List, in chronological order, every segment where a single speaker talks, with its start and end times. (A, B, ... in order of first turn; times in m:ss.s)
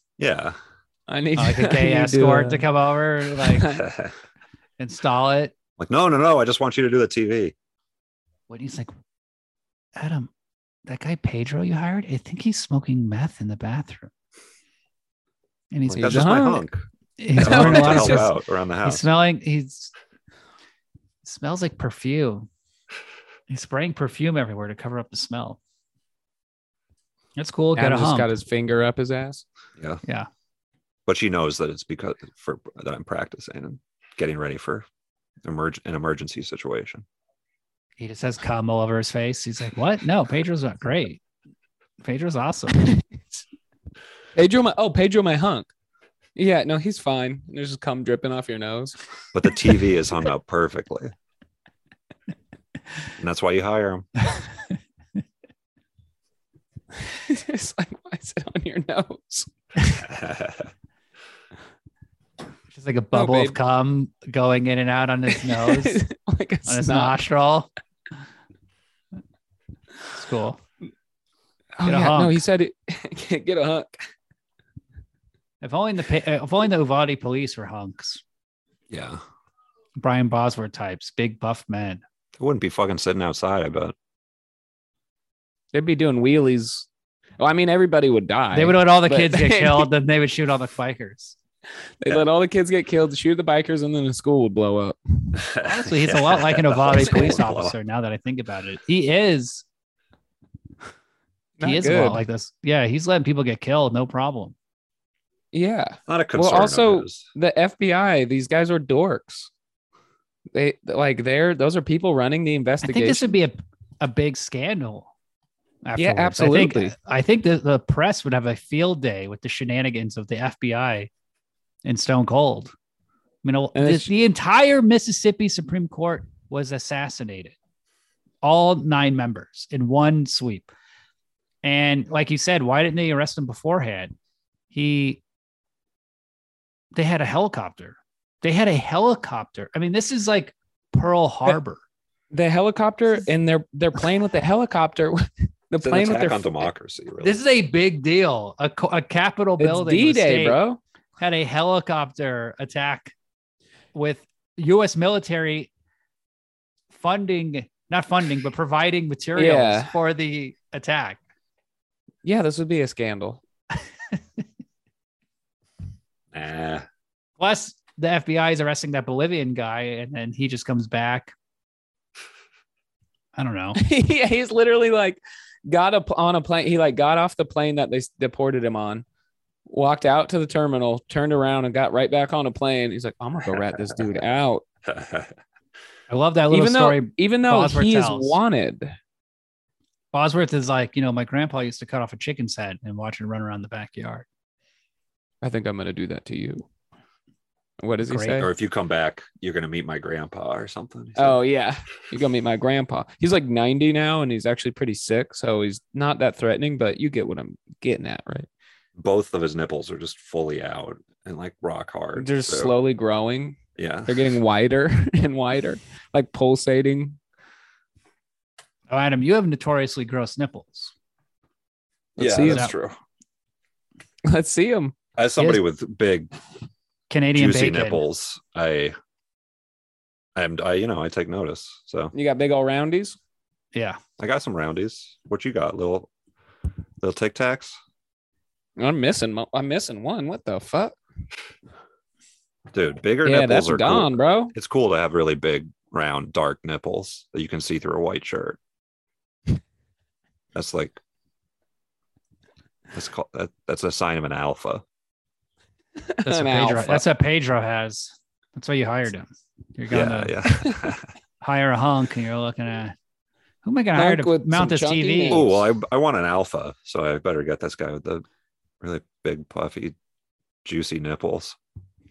0:00.2-0:00.6 A
0:01.1-0:02.7 B
0:01.4-0:03.8 C
0:03.3-0:03.8 B
0:03.8-0:04.1 A
0:04.8-0:05.5 C
0:05.8-0:07.5 A
0:08.5-0:08.9 C
0:10.0-0:10.3 C
0:10.9-0:14.1 C
0:15.7-0:16.5 C
0:15.9-0:16.8 A
0:15.9-0:16.6 B
0:17.2-0:19.9 C
0:17.4-0:18.3 B
0:17.4-0:19.0 A
0:21.2-0:22.5 C
0:23.5-0:25.6 C
0:27.4-0:28.3 C
0:27.8-0:29.4 B
0:31.1-0:34.8 A
0:35.4-0:37.0 A
0:38.0-0:41.2 C
0:42.0-0:42.8 C
0:44.3-0:45.7 B
0:46.4-0:49.0 B
0:49.3-0:51.1 A
0:53.2-0:54.1 A
0:57.0-0:59.5 B
1:00.0-1:00.7 A
1:02.7-1:06.0 C
1:03.1-1:03.6 B
1:05.4-1:07.2 B
1:06.7-1:07.7 C
1:10.1-1:10.6 C
1:11.8-1:14.1 B
1:11.8-1:12.4 C
1:15.6-1:18.2 C
1:18.9-1:19.2 A
1:20.0-1:22.0 C
1:22.4-1:23.9 A
1:25.7-1:26.9 B
1:27.4-1:29.9 B
1:28.5-1:31.4 C
1:32.0-1:35.4 B
1:35.3-1:37.7 A
1:35.6-1:39.6 C
1:41.6-1:42.2 B
1:41.6-1:44.5 C
1:45.5-1:49.5 B
1:46.1-1:47.2 A
1:50.5-1:53.2 B
1:52.8-1:55.1 C
1:55.8-2:01.1 C
1:56.0-1:56.9 B
2:01.8-2:02.7 C
2:03.4-2:07.6 C
2:03.7-2:04.1 B
2:08.4-2:10.7 C
2:11.6-2:14.1 C
2:14.7-2:15.2 C
2:16.9-2:21.8 C
2:22.3-2:26.6 B
2:25.8-2:27.4 A
2:27.2-2:30.6 C
2:29.6-2:30.8 B
2:31.2-2:33.1 C
2:33.9-2:35.7 C
2:36.9-2:41.2 C
2:39.4-2:39.9 B
2:42.2-2:43.4 B
2:46.3-2:46.8 A
2:47.4-2:51.3 C
2:53.3-2:53.8 C
2:53.8-2:59.0 B
2:59.7-3:04.6 B
3:04.8-3:05.3 A
3:06.1-3:08.4 C
3:06.5-3:08.9 B
3:10.1-3:14.2 C
3:15.4-3:16.6 B
3:17.8-3:18.5 B
3:18.0-3:18.5 C
3:18.4-3:21.4 A
3:21.2-3:28.5 B
3:29.0-3:32.7 A
3:32.2-3:37.2 B
3:33.8-3:34.3 A
3:38.9-3:40.9 C
3:42.2-3:42.7 B
3:42.2-3:43.0 A
3:42.4-3:42.7 C
3:44.3-3:44.9 B
3:45.2-3:46.3 A
3:47.1-3:48.0 C
3:47.3-3:48.9 A
3:50.4-3:52.1 A
3:52.1-3:53.2 B
3:53.7-3:54.0 C
3:54.2-3:56.1 A
3:57.0-3:57.8 A
3:58.8-4:00.9 B
4:02.7-4:08.6 A
4:03.2-4:04.5 B
4:10.5-4:11.0 A
4:12.9-4:14.8 A
4:16.0-4:17.0 B
4:16.2-4:20.4 C
4:19.9-4:21.1 A
4:21.4-4:22.9 C
4:23.6-4:25.5 C
4:24.0-4:25.6 B
4:25.3-4:28.2 A
4:28.8-4:29.9 A
4:30.6-4:31.6 A